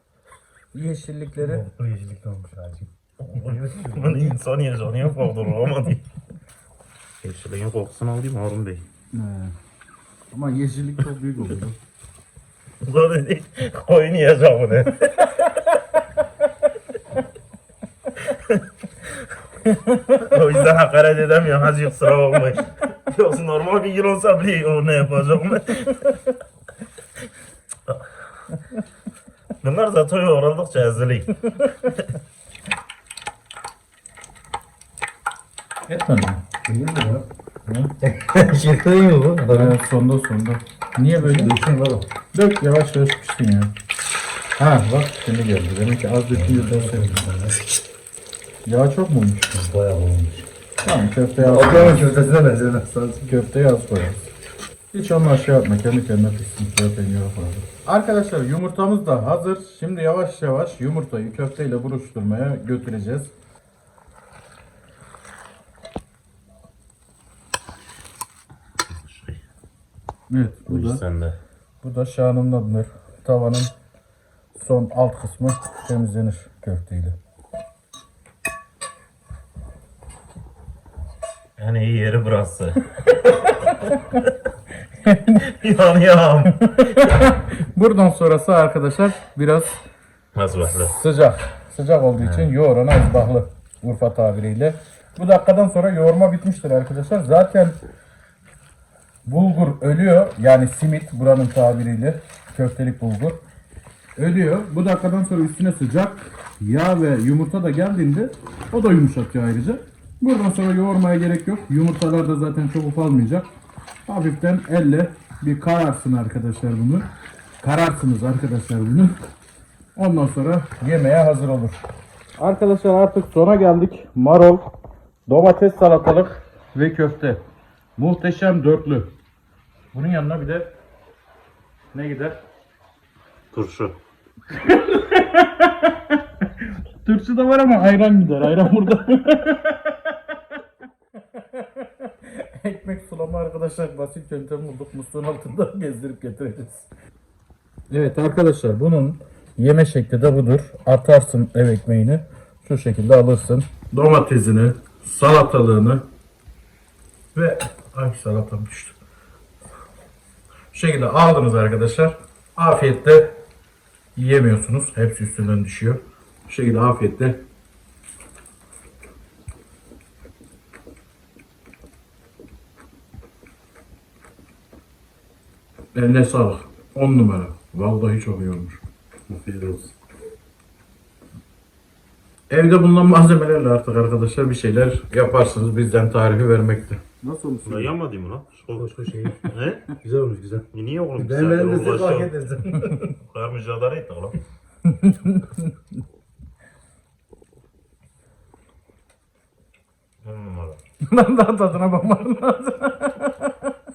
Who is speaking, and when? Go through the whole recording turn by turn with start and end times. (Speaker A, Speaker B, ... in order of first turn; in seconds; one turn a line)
Speaker A: 0.7-1.6
Speaker B: 1.4-4.3
Speaker C: 3.2-6.0
Speaker C: 7.2-8.8
Speaker A: 9.1-9.5
Speaker A: 10.3-11.8
Speaker C: 12.8-15.8
Speaker C: 18.2-19.1
Speaker A: 19.7-20.2
Speaker C: 20.1-26.2
Speaker C: 29.6-32.1
Speaker A: 35.9-36.4
Speaker B: 36.6-37.2
Speaker A: 37.7-37.9
Speaker B: 38.0-39.8
Speaker A: 39.5-41.5
Speaker B: 41.2-42.1
Speaker A: 42.3-43.7
Speaker A: 44.6-47.3
Speaker B: 46.3-47.6
Speaker A: 48.6-49.5
Speaker B: 49.5-50.5
Speaker A: 50.8-52.0
Speaker B: 51.4-53.3
Speaker A: 53.2-54.3
Speaker A: 54.9-63.3
Speaker C: 68.9-69.4
Speaker A: 70.3-71.0
Speaker C: 70.7-71.4
Speaker A: 71.8-73.7
Speaker A: 74.5-77.2
Speaker C: 81.6-84.0
Speaker A: 83.3-84.2
Speaker A: 84.9-85.5
Speaker C: 85.4-87.2
Speaker A: 86.6-89.8
Speaker C: 90.3-90.9
Speaker A: 90.6-97.8
Speaker C: 92.2-92.5
Speaker A: 99.2-103.4
Speaker A: 104.2-113.5
Speaker A: 114.1-117.1
Speaker A: 117.6-119.2
Speaker A: 120.0-121.8
Speaker A: 122.4-124.7
Speaker A: 125.3-127.4
Speaker A: 128.0-129.1
Speaker A: 129.9-130.7
Speaker A: 131.9-132.4
Speaker C: 133.5-133.9
Speaker A: 134.5-136.4
Speaker A: 137.0-140.4
Speaker A: 141.2-146.9
Speaker A: 147.9-156.1
Speaker A: 157.3-159.0
Speaker A: 160.7-163.3
Speaker A: 164.2-167.4
Speaker A: 175.9-179.9
Speaker A: 182.5-187.9
Speaker C: 187.7-189.9
Speaker B: 188.7-193.1
Speaker C: 190.7-194.4
Speaker A: 194.8-195.7
Speaker C: 200.2-200.8
Speaker A: 201.0-203.7